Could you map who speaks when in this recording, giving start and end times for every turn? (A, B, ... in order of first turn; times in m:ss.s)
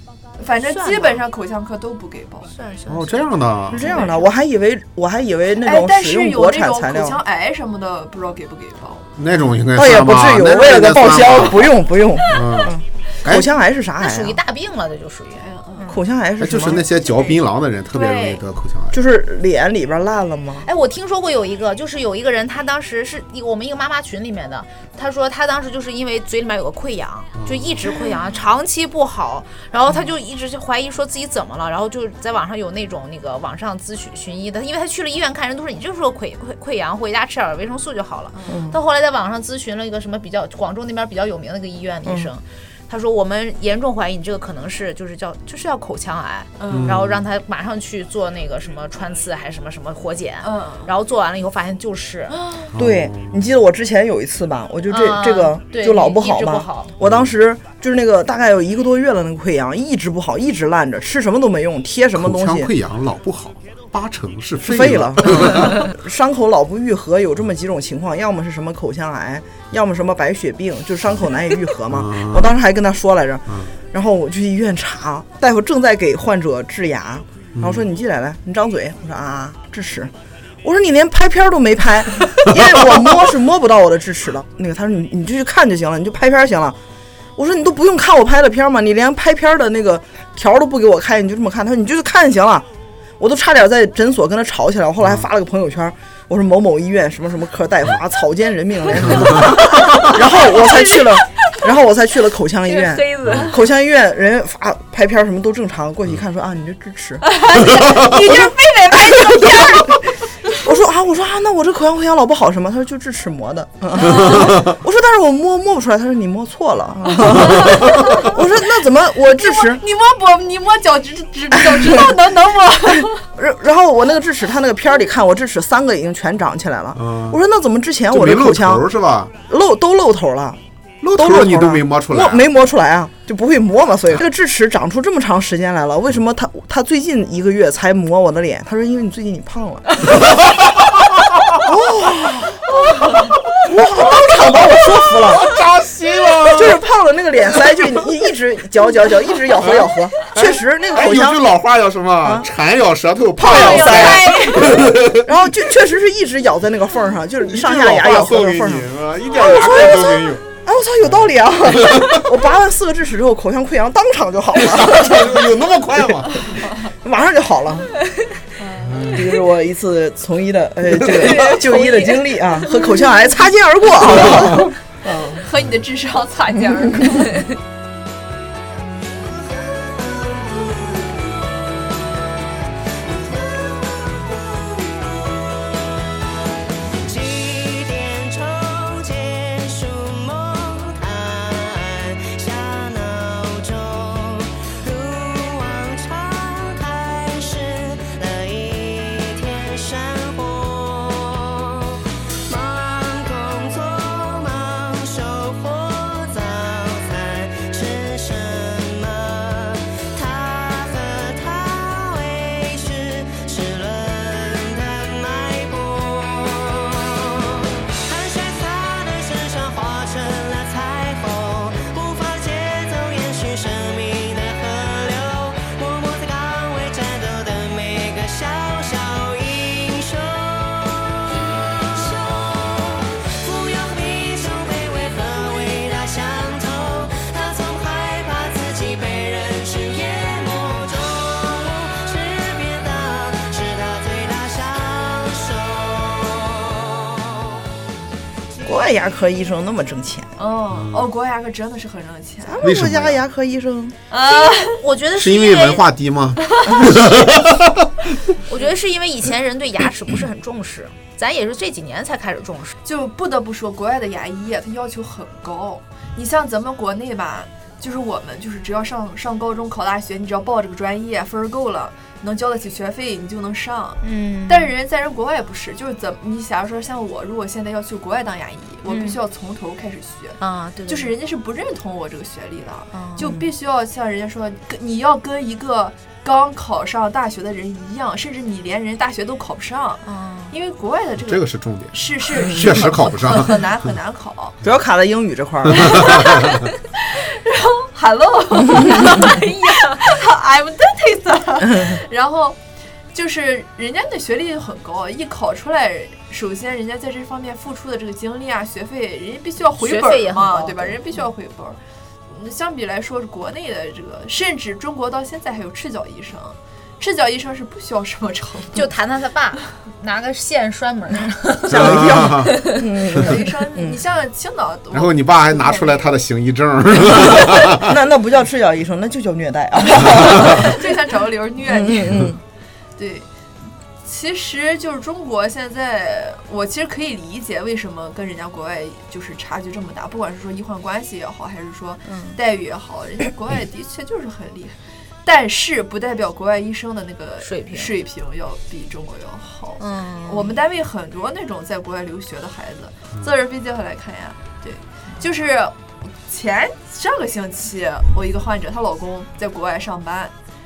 0:00.4-0:02.5 A
0:00.7-0:01.2 B
0:02.5-0:03.3 B
0:02.9-0:03.9 C
0:03.7-0:07.2 D
0:03.8-0:04.3 A
0:05.6-0:09.1 A
0:09.2-0:11.7 C
0:09.7-0:14.4 D
0:12.2-0:12.7 A
0:12.3-0:13.5 C
0:14.0-0:16.0 B
0:15.4-0:16.0 A
0:15.9-0:16.8 D
0:16.4-0:19.0 C
0:16.9-0:18.4 A
0:18.9-0:20.7 D
0:20.6-0:52.4 B
0:27.4-0:28.1 C
0:38.5-0:38.8 D
0:42.0-0:42.3 D
0:46.6-0:47.0 A
0:46.7-0:47.2 C
0:50.4-0:50.9 A
0:52.3-0:52.7 A
0:52.7-0:53.4 C
0:52.8-1:02.7 D
0:54.9-0:56.9 B
0:57.0-0:57.4 C
1:02.2-1:05.9 C
1:04.6-1:20.1 D
1:11.9-1:12.5 C
1:17.6-1:17.9 C
1:20.6-1:26.8 D
1:27.4-1:32.7 D
1:33.2-1:47.3 D
1:39.0-1:39.5 C
1:40.5-1:41.0 B
1:42.7-1:43.5 B
1:43.2-1:43.5 C
1:47.2-1:50.1 A
1:48.1-1:59.8 D
1:54.0-1:54.5 A
1:57.2-1:58.4 A
1:59.3-2:03.2 A
2:01.6-2:02.2 D
2:02.9-2:08.9 D
2:07.0-2:07.4 C
2:08.1-2:09.3 C
2:09.5-2:10.6 D
2:11.0-2:12.4 C
2:11.2-2:20.1 D
2:20.2-2:20.9 C
2:21.6-2:23.1 D
2:23.6-2:25.5 D
2:24.0-2:24.4 C
2:25.2-2:26.8 C
2:26.5-2:31.5 D
2:29.6-2:35.3 C
2:32.2-2:32.5 D
2:33.4-2:34.9 A
2:33.4-2:45.5 D
2:37.5-2:40.4 C
2:41.0-2:42.2 C
2:44.6-2:46.6 C
2:47.0-2:47.9 D
2:48.6-2:49.2 A
2:48.8-2:49.3 C
2:49.0-2:55.4 D
2:51.1-2:52.2 A
2:55.4-2:57.5 A
2:59.2-3:02.4 E
3:03.0-3:06.2 E
3:06.9-4:07.6 E
4:08.6-4:10.3 D
4:10.4-4:12.6 A
4:10.7-4:11.1 C
4:12.4-4:14.0 D
4:12.6-4:13.2 C
4:14.1-4:14.8 A
4:14.3-4:15.9 B
4:15.2-4:17.9 C
4:16.5-4:16.8 A
4:18.5-4:22.7 B
4:22.8-4:54.6 A
4:34.0-4:34.7 B
4:38.9-4:39.2 B
4:40.4-4:41.1 B
4:42.9-4:43.3 B
4:50.0-4:50.5 B
4:51.2-4:53.6 C
4:52.4-4:52.9 D
4:54.6-4:56.2 D
4:55.8-4:56.5 C
4:55.8-5:02.6 A
4:59.2-5:00.0 B
5:01.6-5:02.0 D
5:03.1-5:11.8 A
5:09.8-5:11.0 B
5:12.3-5:18.9 A
5:18.7-5:22.8 B
5:21.7-5:24.0 D
5:21.7-5:22.6 C
5:23.1-5:26.2 A
5:24.9-5:27.9 C
5:27.2-5:30.9 D
5:30.0-5:32.3 A
5:31.6-5:32.4 D
5:33.0-5:33.3 A
5:34.0-6:00.3 A
5:42.1-5:42.4 B
5:47.4-5:47.9 B
5:49.8-5:50.5 B